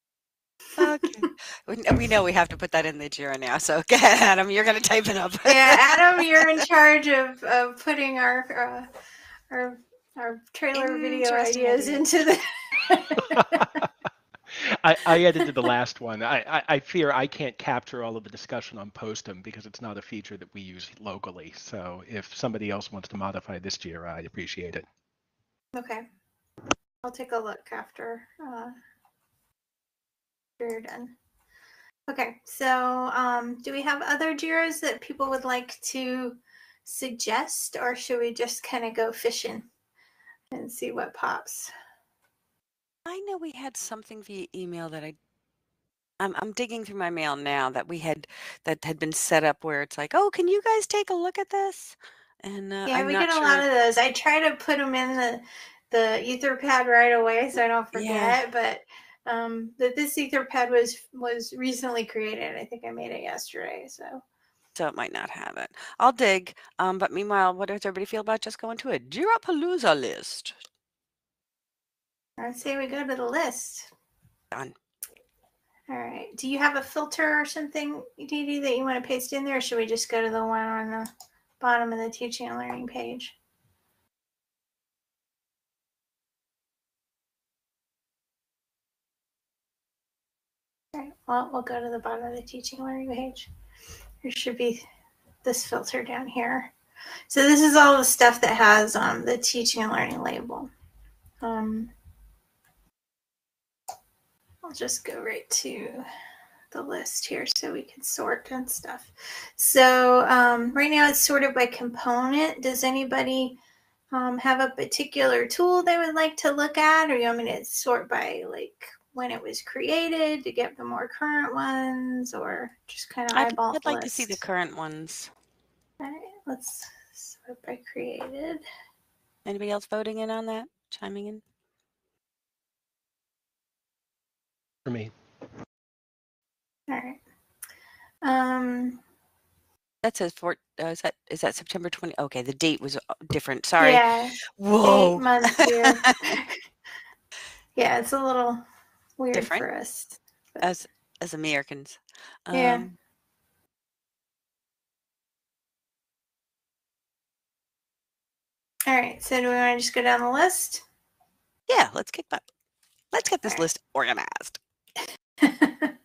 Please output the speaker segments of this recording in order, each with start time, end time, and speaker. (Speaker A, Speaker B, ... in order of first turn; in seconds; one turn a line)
Speaker A: 0.8-6.6
Speaker B: 5.4-8.9
Speaker B: 9.5-13.8
Speaker A: 11.3-11.8
Speaker C: 13.2-13.9
Speaker C: 14.6-24.8
Speaker B: 25.7-26.1
Speaker B: 27.0-28.7
Speaker B: 30.6-31.1
Speaker B: 32.1-39.7
Speaker B: 40.5-41.7
Speaker A: 43.0-45.1
Speaker A: 46.2-53.6
Speaker B: 52.9-64.2
Speaker A: 57.9-58.4
Speaker A: 64.7-70.5
Speaker B: 72.4-73.9
Speaker B: 75.9-83.3
Speaker B: 90.9-93.5
Speaker B: 94.2-94.8
Speaker B: 95.4-96.7
Speaker B: 97.3-100.7
Speaker B: 101.4-101.9
Speaker B: 104.6-106.0
Speaker B: 106.7-113.6
Speaker B: 114.1-124.4
Speaker A: 123.3-125.3
Speaker B: 126.0-128.6
Speaker A: 129.4-131.4
Speaker C: 134.8-135.1
Speaker B: 136.9-137.2
Speaker B: 138.2-139.0
Speaker A: 140.0-146.1
Speaker B: 143.8-146.6
Speaker B: 147.8-148.6
Speaker B: 149.2-150.7
Speaker A: 149.3-149.7
Speaker A: 150.6-152.9
Speaker B: 152.5-152.9
Speaker B: 158.9-160.8
Speaker A: 161.7-162.4
Speaker A: 163.1-164.6
Speaker B: 165.4-165.9